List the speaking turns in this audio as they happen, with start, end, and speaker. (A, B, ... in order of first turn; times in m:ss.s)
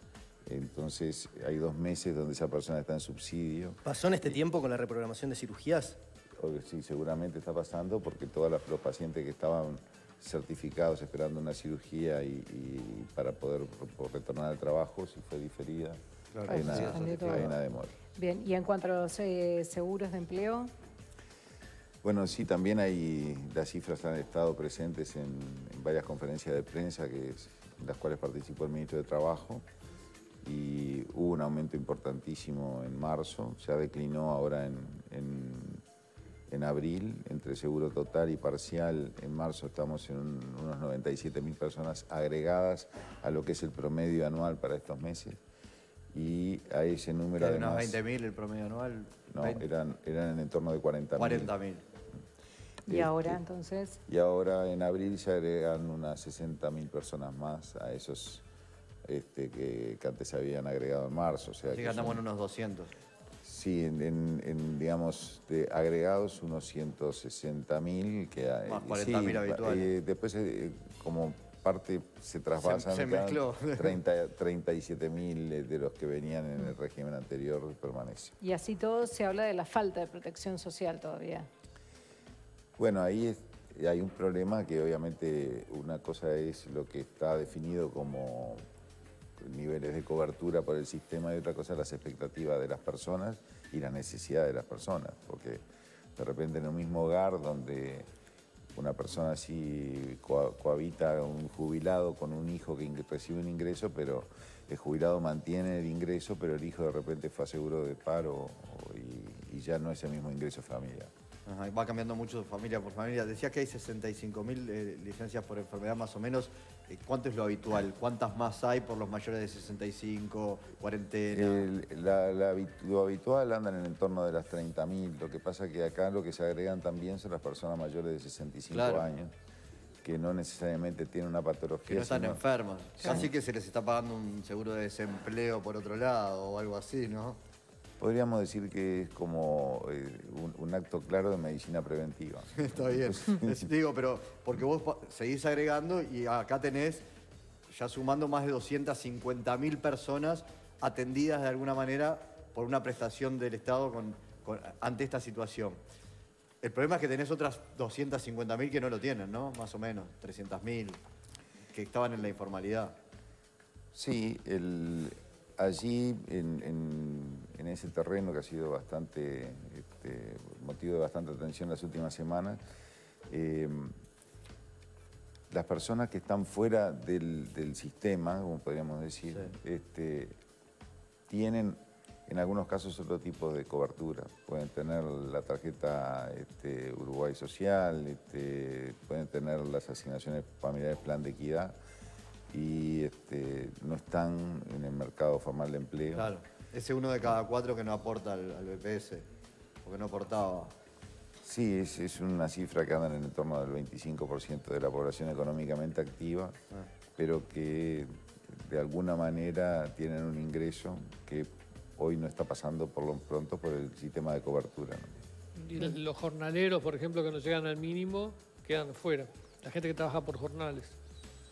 0:00.5-0:03.8 A
0:03.9-0:06.0 B
0:06.4-0:18.0 A
0:16.3-0:17.5 C
0:16.5-0:17.5 D
0:18.2-0:20.7 D
0:22.0-0:29.6 A
0:30.4-0:35.8 A
0:36.5-0:45.4 A
0:46.1-0:48.0 A
0:47.4-0:49.6 C
0:49.3-0:51.5 A
0:51.2-0:51.8 C
0:52.9-0:54.0 D
0:52.9-0:53.4 A
0:54.1-0:58.4 A
0:59.0-1:02.2 A
1:01.7-1:02.9 C
1:03.4-1:18.4 A
1:08.7-1:09.9 C
1:12.6-1:14.0 C
1:18.4-1:21.5 D
1:22.8-1:28.6 A
1:29.4-1:35.6 A
1:36.2-1:38.1 A
1:38.8-1:51.1 A
1:51.5-2:01.7 C
2:01.3-2:09.3 A
2:08.7-2:09.1 C
2:10.0-2:12.4 A
2:11.9-2:17.4 C
2:13.0-2:13.3 A
2:18.0-2:23.5 A
2:22.6-2:27.0 C
2:27.7-2:35.8 C
2:36.6-2:41.0 C
2:41.7-2:43.0 C
2:43.9-2:52.6 A
2:53.3-2:53.9 A
2:55.5-3:00.4 A
3:01.3-3:11.8 A
3:12.5-3:16.3 A
3:16.2-3:19.3 C
3:19.8-3:20.7 C
3:21.4-3:26.6 A
3:27.2-3:35.2 A
3:35.6-3:40.9 E